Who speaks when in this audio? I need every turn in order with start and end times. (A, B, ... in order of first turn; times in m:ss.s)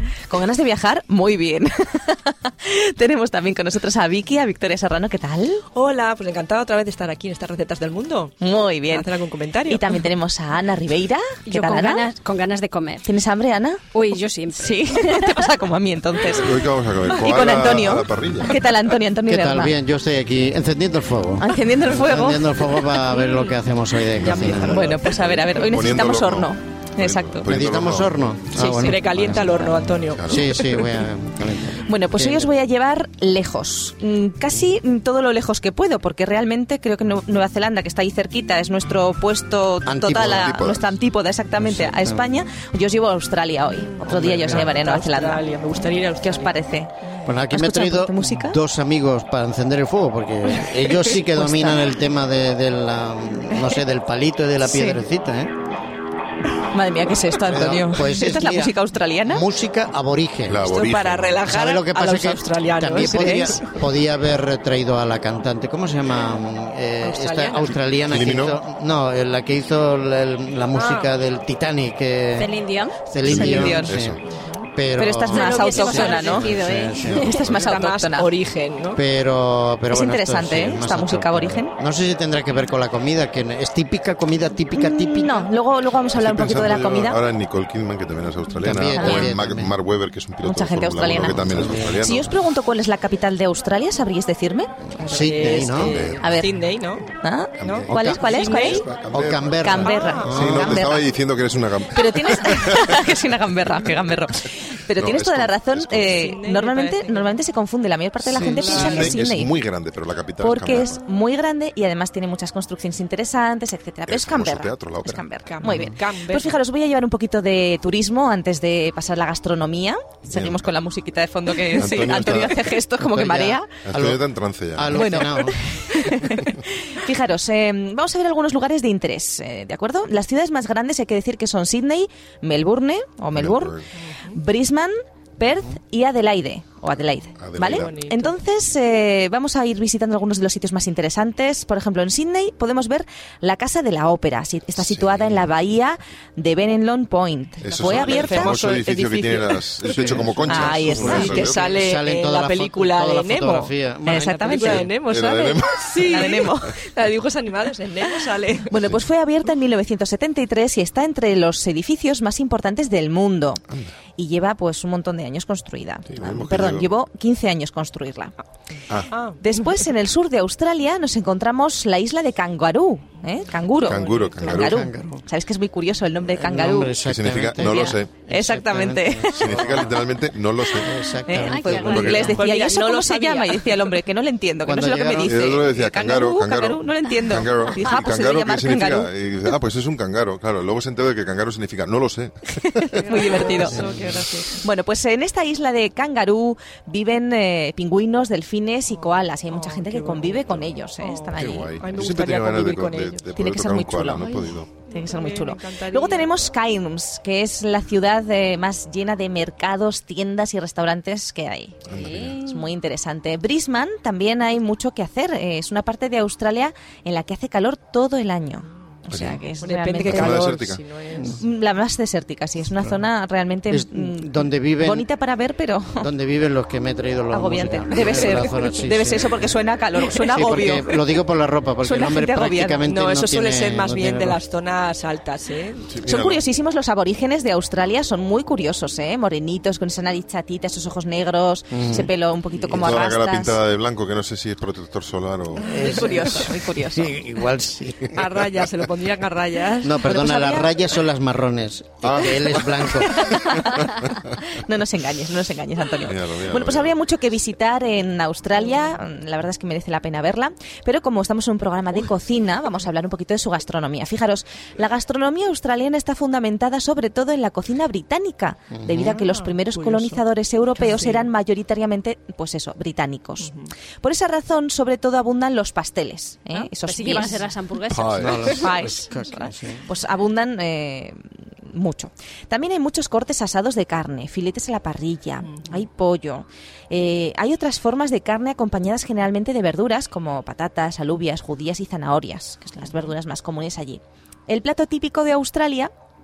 0:00.3-0:05.6 A
0:05.7-0:08.3 B
0:08.4-0:09.1 A
0:08.9-0:10.0 B
0:09.6-0:12.1 A
0:11.5-0:13.1 C
0:13.0-0:14.0 A
0:13.9-0:15.4 C
0:14.5-0:19.8 A
0:16.3-0:18.6 D
0:19.3-0:24.8 E
0:21.4-0:23.1 A
0:24.2-0:25.1 B
0:24.2-0:30.5 D
0:24.7-0:27.5 A
0:27.5-0:29.5 E
0:28.5-0:30.7 B
0:30.3-0:32.5 E
0:31.8-0:46.9 A
0:39.8-0:40.7 E
0:40.1-0:40.9 D
0:41.6-0:42.3 E
0:44.0-0:44.7 E
0:44.1-0:46.6 B
0:47.2-0:55.5 E
0:47.5-0:48.6 A
0:51.1-0:51.9 A
0:54.6-0:55.0 A
0:56.7-0:59.4 A
0:57.5-1:00.6 E
1:00.4-1:01.4 D
1:00.6-1:03.7 B
1:01.4-1:14.2 E
1:07.0-1:07.8 B
1:08.0-1:08.6 D
1:10.7-1:11.1 B
1:12.4-1:13.0 C
1:13.2-1:14.2 D
1:13.2-1:13.9 A
1:14.7-1:17.5 E
1:14.9-1:16.6 A
1:15.3-1:17.5 C
1:15.3-1:16.5 B
1:17.0-1:17.7 D
1:17.2-1:18.3 A
1:17.5-1:19.0 B
1:18.9-1:25.4 E
1:19.9-1:21.8 A
1:24.7-1:27.2 A
1:26.1-1:32.3 D
1:28.6-1:29.7 E
1:28.9-1:29.3 A
1:30.4-1:34.7 A
1:31.4-1:32.1 E
1:35.0-1:37.0 B
1:35.0-1:36.1 E
1:35.7-1:36.4 D
1:36.2-1:36.6 A
1:37.2-1:38.8 A
1:37.6-1:43.2 D
1:37.6-1:38.9 B
1:37.8-1:38.4 E
1:39.1-1:40.8 E
1:39.6-1:41.1 A
1:39.8-1:40.4 B
1:41.9-1:49.5 A
1:45.0-1:46.3 D
1:46.0-1:47.4 B
1:48.3-1:48.7 E
1:48.3-1:51.0 D
1:48.6-1:49.2 B
1:50.4-2:03.7 A
1:54.1-1:55.2 D
1:55.4-1:56.6 B
2:00.3-2:00.6 D
2:01.7-2:02.6 D
2:03.0-2:05.6 E
2:03.8-2:05.1 D
2:04.9-2:13.8 A
2:13.3-2:13.9 D
2:13.9-2:14.4 B
2:14.3-2:28.6 A
2:17.4-2:17.9 D
2:17.6-2:18.4 B
2:24.8-2:25.4 D
2:27.6-2:31.8 D
2:27.8-2:38.8 B
2:29.9-2:34.3 E
2:30.4-2:31.5 A
2:34.1-2:34.9 A
2:34.5-2:36.6 D
2:36.0-2:36.8 A
2:38.7-2:43.6 A
2:44.2-2:48.3 A
2:46.1-2:46.9 D
2:49.1-2:49.4 B
2:49.4-2:57.0 A
2:53.8-2:54.7 B
2:53.8-2:54.9 D
2:54.5-2:55.2 E
2:56.3-3:00.0 E
2:57.0-2:58.1 D
2:57.6-2:59.6 A
2:59.3-3:00.9 D
3:00.7-3:02.3 E
3:01.2-3:09.1 A
3:01.3-3:02.4 C
3:01.7-3:04.0 B
3:01.8-3:02.3 D
3:04.6-3:05.6 E
3:05.2-3:13.9 D
3:12.6-3:13.8 A
3:13.0-3:14.6 B
3:13.7-3:14.1 E
3:14.5-3:22.2 A
3:18.9-3:23.3 B
3:21.3-3:24.7 D
3:23.4-3:31.8 A
3:24.8-3:26.4 B
3:31.9-3:32.4 D
3:31.9-3:32.6 C
3:32.4-3:40.6 A
3:39.1-3:39.4 D
3:39.6-3:41.4 B
3:40.0-3:40.8 D
3:41.2-3:46.1 A
3:43.7-3:45.1 E
3:46.0-3:49.4 E
3:47.3-3:51.0 A
3:50.2-3:54.4 E
3:51.8-3:52.8 A
3:52.8-3:55.9 B
3:55.9-3:56.4 D
3:56.0-4:03.6 A
4:01.7-4:03.0 E
4:02.7-4:06.4 D
4:05.6-4:07.2 A
4:05.6-4:08.2 E
4:05.8-4:06.5 B
4:08.1-4:10.0 B
4:09.8-4:13.6 E
4:10.0-4:10.9 A
4:12.0-4:13.2 D
4:12.9-4:37.4 A
4:13.8-4:14.4 D
4:16.0-4:17.0 D
4:28.7-4:29.2 E
4:29.1-4:30.2 B
4:30.8-4:31.3 B
4:33.4-4:33.7 B
4:36.5-4:38.6 C
4:37.8-4:38.6 D
4:38.1-4:39.8 E
4:38.4-4:55.9 A